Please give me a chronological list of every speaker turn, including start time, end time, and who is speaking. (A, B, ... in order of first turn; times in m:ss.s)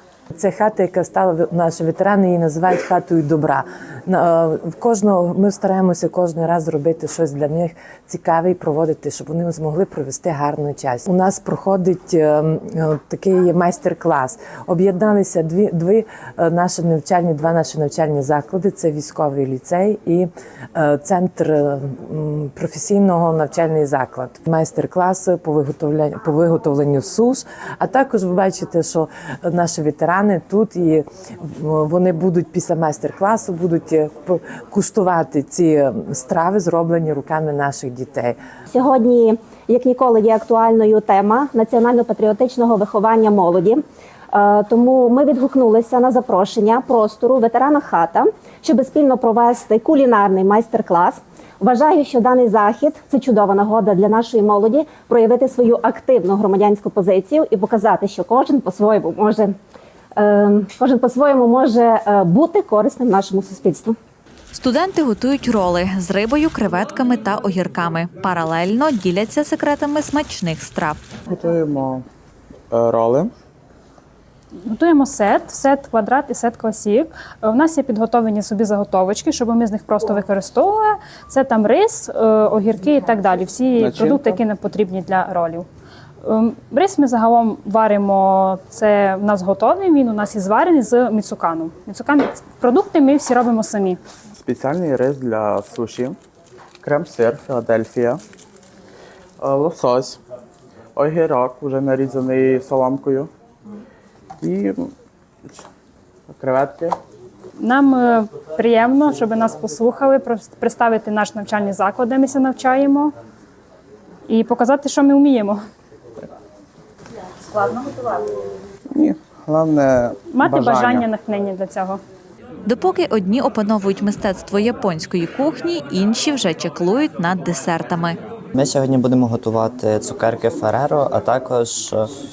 0:00.4-0:38.4 A
0:38.7-0:43.8 B
0:44.3-0:59.5 B
1:00.2-1:04.0 B
1:04.5-1:11.0 C
1:11.3-1:12.0 D
1:12.7-1:13.3 D
1:14.7-1:25.7 E
1:23.8-1:24.4 D
1:26.2-1:34.0 E
1:34.4-1:36.2 D
1:36.8-1:38.2 D
1:39.4-1:40.2 D
1:40.9-1:43.3 D
1:44.4-1:44.9 D
1:46.3-1:47.0 D
1:47.6-1:53.1 E
1:54.3-1:55.6 E
1:58.9-2:01.1 D
2:00.3-2:02.0 E
2:02.6-2:08.2 C
2:08.5-2:12.0 F